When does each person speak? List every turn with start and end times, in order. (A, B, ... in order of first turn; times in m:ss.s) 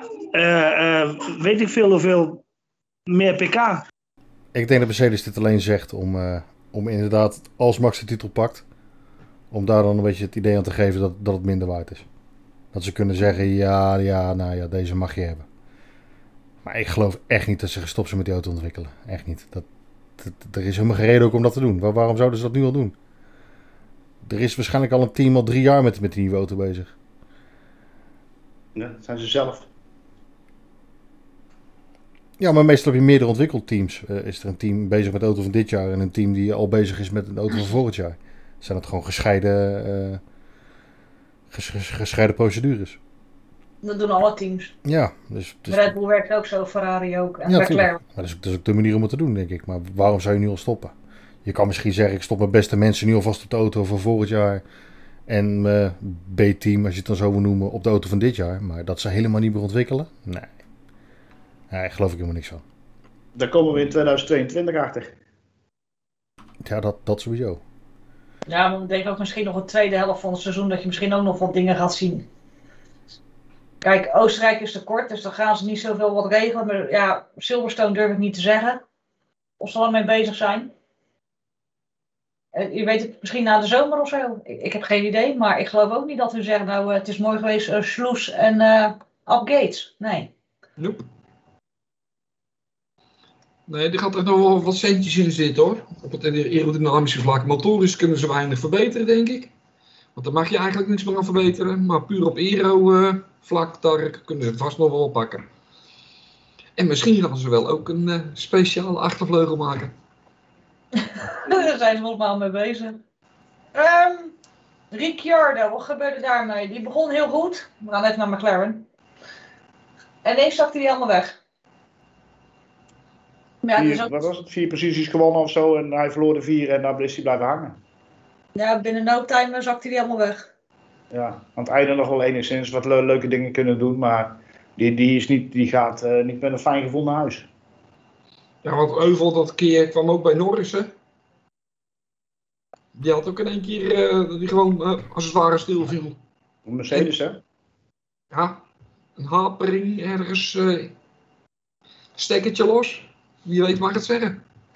0:00.3-0:02.4 A
0:03.1-0:03.8 A
0:04.5-0:08.6 B
0:09.5-0:12.0 B
0:12.7-0:15.4 B
0:16.6-0:19.6 B
0:20.2-0:22.9 B
0:24.2-0:26.9 B
0:28.7-0:29.7 C
0:32.4-0:40.2 B
0:41.5-0:43.0 B
0:43.8-0:44.7 D
0:44.8-0:45.9 B
0:45.7-0:48.0 D
0:47.5-0:50.9 B
0:51.4-0:54.6 B
0:55.3-1:00.5 B
1:01.7-1:02.6 B
1:03.3-1:05.1 C
1:06.6-1:07.6 B
1:08.5-1:12.3 D
1:13.8-1:18.8 D
1:19.6-1:20.7 D
1:22.5-1:30.3 D
1:30.8-1:31.0 E
1:33.7-1:39.5 E
1:40.1-1:45.4 E
1:46.8-1:49.9 E
1:51.0-1:53.0 D
1:53.7-1:54.3 D
1:54.9-1:58.8 D
2:00.2-2:01.4 D
2:03.6-2:04.1 D
2:03.8-2:07.8 C
2:08.5-2:10.5 D
2:11.1-2:17.5 C
2:18.6-2:20.9 E
2:22.9-2:26.2 E
2:26.6-2:27.4 C
2:28.3-2:28.6 E
2:29.2-2:30.9 E
2:32.1-2:34.4 E